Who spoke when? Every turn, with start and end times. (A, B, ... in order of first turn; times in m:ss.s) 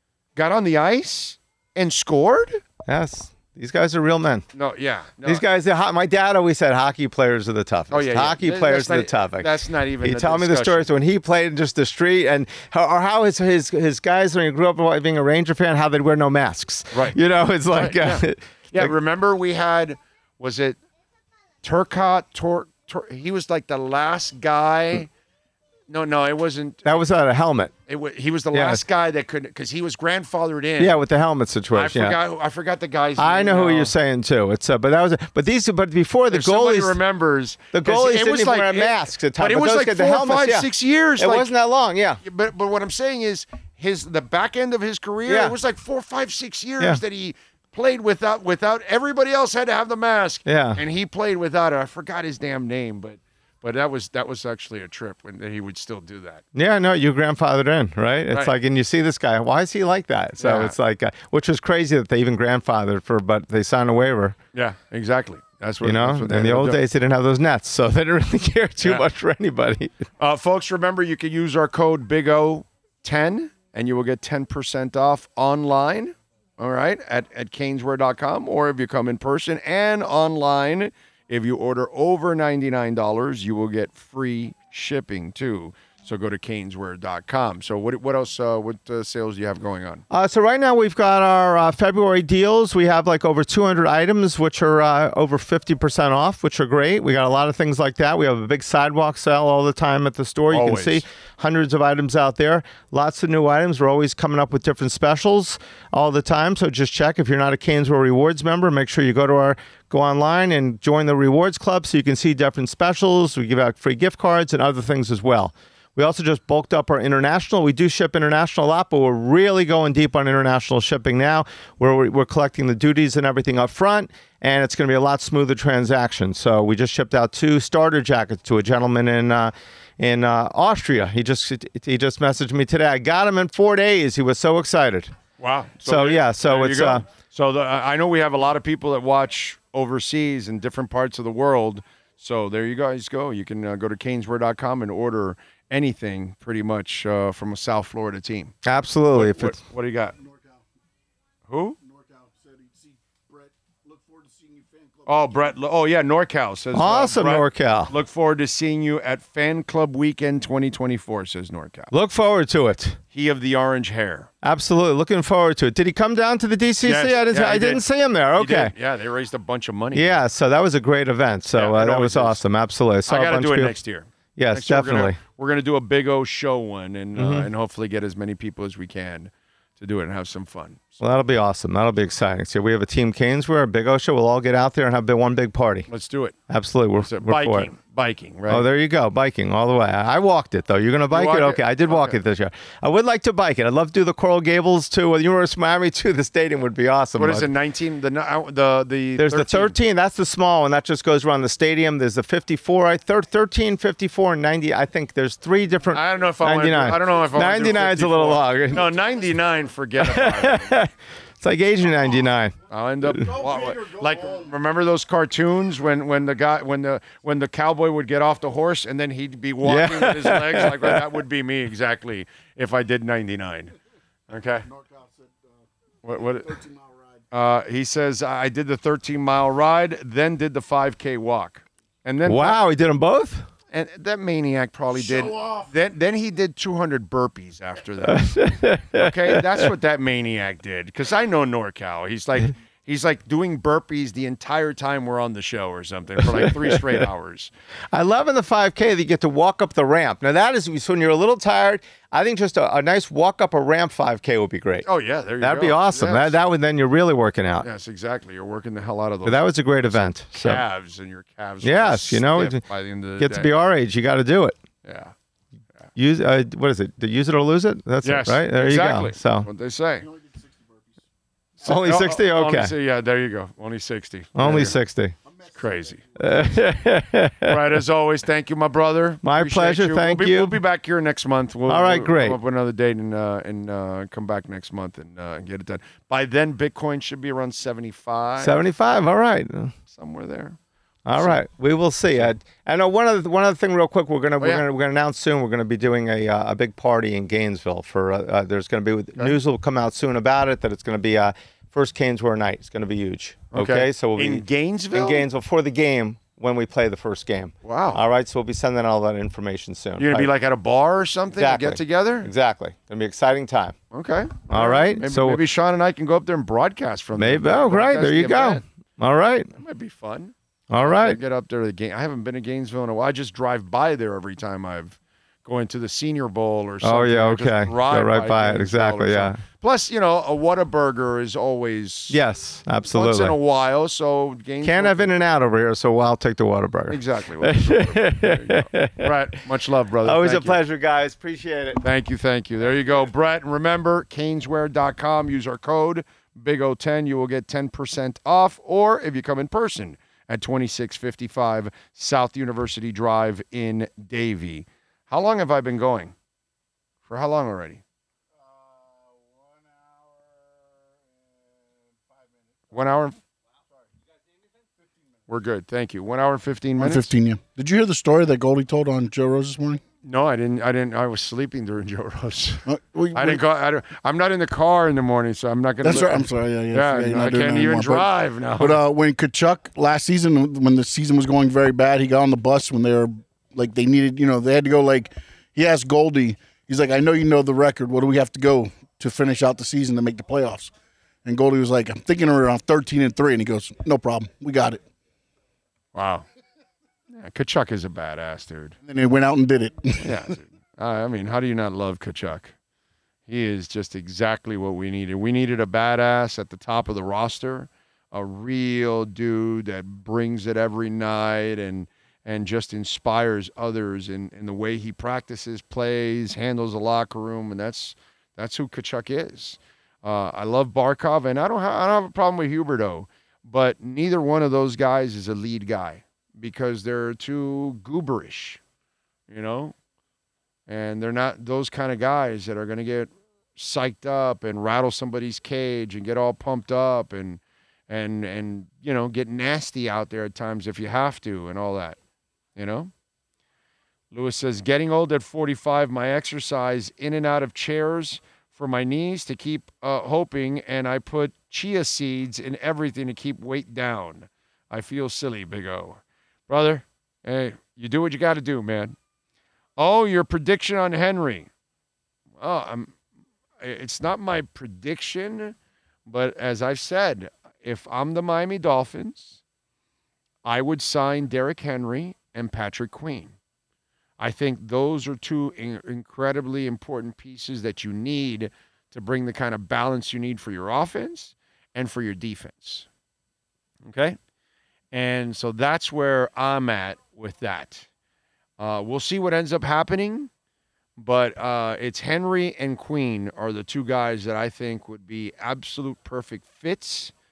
0:00.4-0:02.6 A
0:02.9-0:04.4 B
0:04.5-0:05.4 A
0:05.2-0:18.9 B
0:07.9-0:10.9 A
0:16.9-0:17.2 A
0:17.7-0:20.8 A
0:21.6-0:25.1 A
0:25.9-0:27.0 A
0:26.8-0:27.7 B
0:27.9-0:31.0 A
0:28.5-0:28.8 B
0:30.8-0:32.2 B
0:31.7-0:34.0 A
0:33.2-0:37.0 B
0:36.3-0:41.5 A
0:37.7-0:42.2 B
0:42.2-0:56.4 A
0:45.3-0:45.6 B
0:50.5-0:50.8 B
0:56.5-1:04.4 B
1:00.4-1:00.8 A
1:04.5-1:06.8 A
1:05.8-1:10.0 B
1:10.2-1:30.0 A
1:30.1-2:15.1 B
1:40.5-1:41.0 A
2:15.4-2:28.5 A
2:15.8-2:17.0 B
2:28.6-2:29.6 B
2:29.1-2:30.2 A
2:31.5-2:31.8 A
2:32.4-2:32.6 C
2:33.9-2:34.7 C
2:35.1-2:41.9 A
2:36.7-2:37.9 B
2:41.9-2:43.0 B
2:43.1-2:44.3 A
2:44.4-2:48.7 B
2:46.8-2:47.8 A
2:48.4-2:50.2 A
2:49.9-2:53.8 B
2:51.5-2:52.4 A
2:53.1-3:01.0 A
2:54.4-2:55.2 B
2:57.2-2:57.5 B
3:01.0-3:05.9 B
3:05.9-3:06.4 A
3:06.5-3:07.7 B
3:07.0-3:08.7 A
3:08.5-3:17.5 B
3:11.1-3:12.2 A
3:17.2-3:19.8 A
3:19.2-3:28.9 B
3:25.9-3:30.8 A
3:30.0-3:33.4 B
3:32.7-3:43.7 A
3:39.6-3:41.0 B
3:44.3-3:44.7 A
3:44.8-3:45.1 C
3:46.0-3:46.6 A
3:47.3-3:52.6 A
3:52.2-3:53.5 B
3:53.7-3:58.4 A
3:58.0-3:59.7 B
3:58.9-4:07.5 A
4:06.3-4:07.0 B
4:07.9-4:14.9 B
4:14.8-4:16.4 A
4:15.4-4:17.7 B
4:17.6-4:23.5 A
4:19.2-4:20.6 B
4:21.6-4:22.6 B
4:23.2-4:24.6 B
4:24.8-4:25.1 A
4:26.0-4:29.5 B
4:28.0-4:30.1 A
4:31.6-4:34.8 A
4:31.6-4:32.7 B
4:34.4-4:35.2 B
4:35.5-4:36.1 A
4:36.2-4:37.8 B
4:37.4-4:48.6 A
4:39.2-4:40.6 B
4:41.7-4:42.4 B
4:48.4-4:49.7 B
4:49.9-4:50.6 A
4:51.0-5:10.3 B
4:51.1-4:51.4 A
4:54.4-4:54.6 A
5:03.5-5:05.3 A
5:07.6-5:08.0 A
5:10.0-5:12.3 A
5:11.4-5:13.8 B
5:13.9-5:18.6 A
5:14.5-5:15.4 B
5:17.2-5:19.5 B
5:19.6-5:32.2 A
5:20.7-5:21.2 B
5:26.8-5:29.4 B
5:32.1-5:33.4 B
5:32.9-5:35.1 A
5:34.6-5:39.4 B
5:36.9-5:40.6 A
5:40.0-5:41.8 B
5:41.8-5:56.2 A
5:57.1-5:57.8 A
6:02.7-6:03.2 A
6:05.3-6:07.1 A
6:06.8-6:09.8 C
6:10.0-6:18.8 A
6:12.7-6:13.4 C
6:15.8-6:30.7 C
6:31.2-6:34.8 C
6:35.9-6:36.2 A
6:37.1-6:38.8 A
6:38.8-6:40.2 C
6:40.0-6:42.6 A
6:43.3-7:08.6 A
7:09.3-7:09.8 A
7:10.7-7:22.0 A
7:22.6-7:22.9 A
7:24.1-7:39.0 A
7:39.8-7:41.5 A
7:42.4-7:43.0 A
7:43.6-7:49.4 A
7:50.4-7:53.4 A
7:54.2-8:02.9 A
8:03.9-8:04.2 A
8:04.9-8:07.9 A
8:08.6-8:10.3 A
8:11.0-8:17.1 A